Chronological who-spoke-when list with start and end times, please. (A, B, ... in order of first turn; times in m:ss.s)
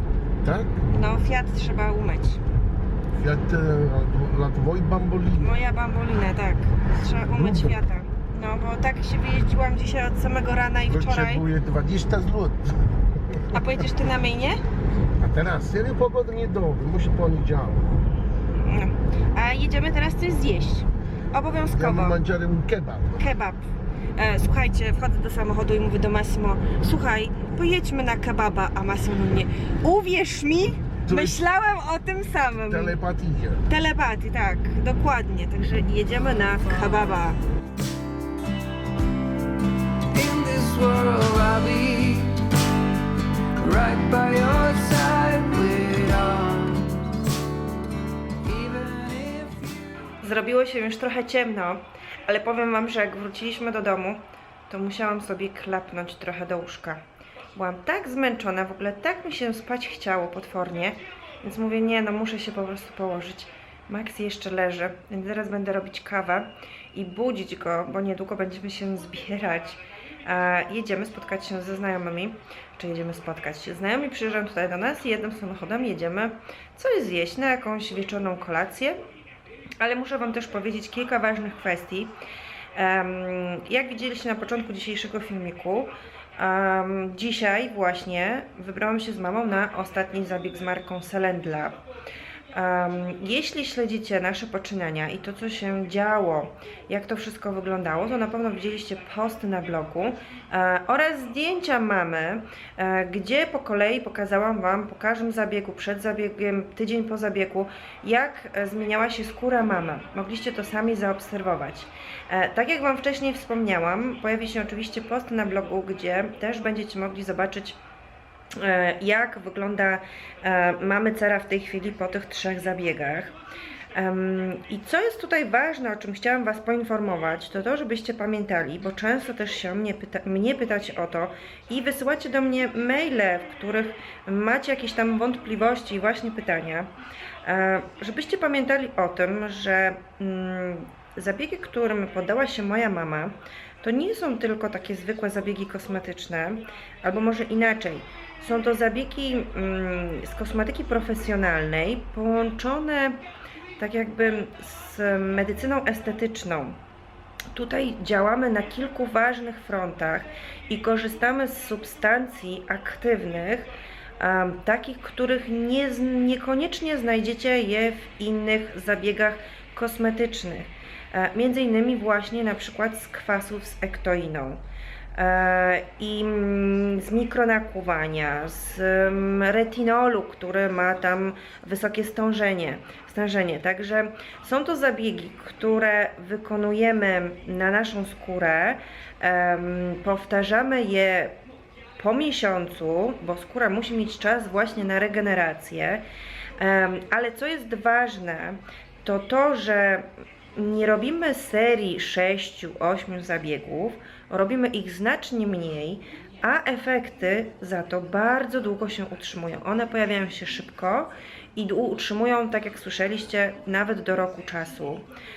0:00.4-0:00.8 A
0:00.9-0:02.4 B
0:03.1-0:05.6 A
0:05.4-0:11.4 B
0:07.3-0:07.8 A
0:10.9-0:12.8 A
0:13.5-0:14.6 B
0:15.2-0:17.9 A
0:18.6-0:22.2 B
0:21.8-0:23.2 A
0:23.1-0:23.6 B
0:24.2-0:33.0 B
0:31.0-0:31.4 A
0:32.7-0:33.7 A
0:33.7-0:37.4 B
0:36.3-0:37.1 C
0:40.1-0:42.6 C
0:43.6-0:47.1 C
0:48.4-0:50.2 C
0:50.2-0:57.0 B
0:57.6-1:19.0 B
1:19.8-1:22.2 B
1:22.8-1:31.8 B
1:32.5-1:57.8 B
1:58.6-2:03.3 B
2:04.0-2:16.9 B
2:17.4-2:33.2 B
2:33.8-2:36.8 B
2:37.5-2:54.6 B
2:55.2-3:11.3 B
3:12.0-3:16.0 B
3:16.6-3:35.0 B